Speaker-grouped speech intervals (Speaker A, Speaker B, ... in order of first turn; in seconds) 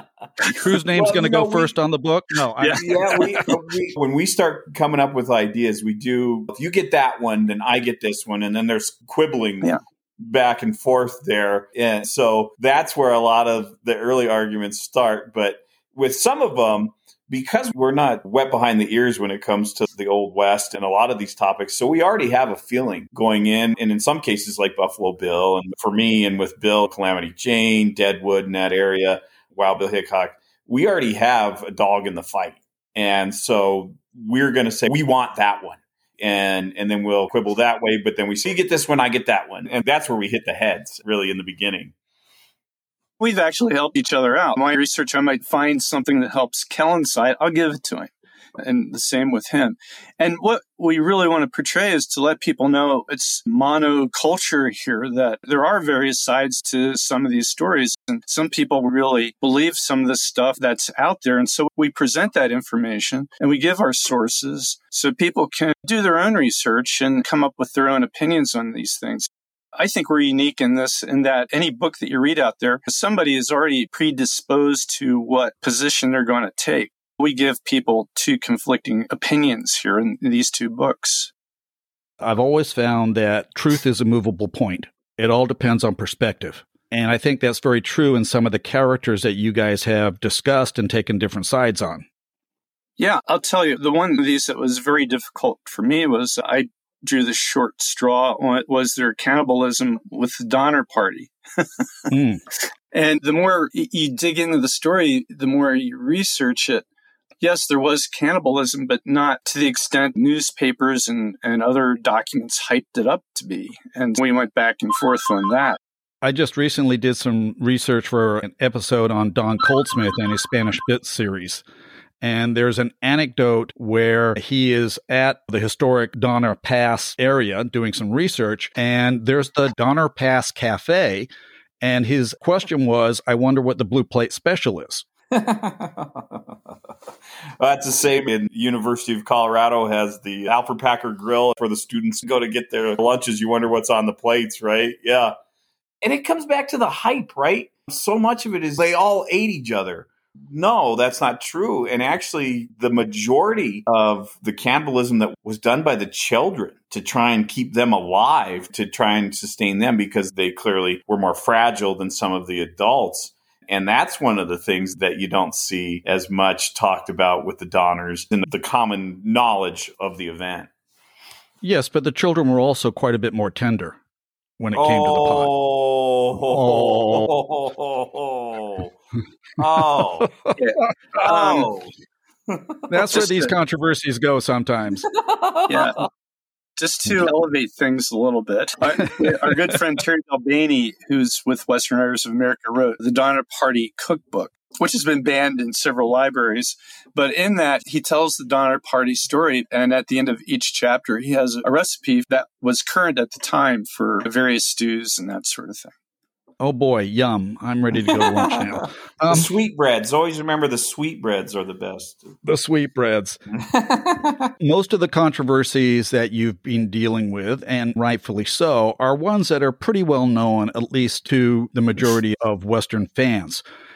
Speaker A: 0.5-2.8, 82.2-92.0, 102.1-102.4, 116.2-121.6, 122.2-131.3, 131.8-135.1, 171.6-174.0, 174.6-175.5, 176.5-177.3, 182.9-185.1, 206.6-209.5, 212.4-213.4, 214.6-223.6
Speaker B: 0.8-1.7, 2.8-41.9, 135.3-136.5, 137.6-145.3, 146.0-170.7, 174.7-178.9, 179.6-180.3, 181.1-181.9, 182.5-183.2, 185.1-185.9, 208.2-208.6, 209.3-212.3, 213.5-214.5
Speaker C: 2.6-3.5, 43.2-81.3, 93.0-102.1, 102.9-106.8, 107.4-115.8, 180.6-181.7, 183.1-183.5, 185.7-186.0, 186.8-205.9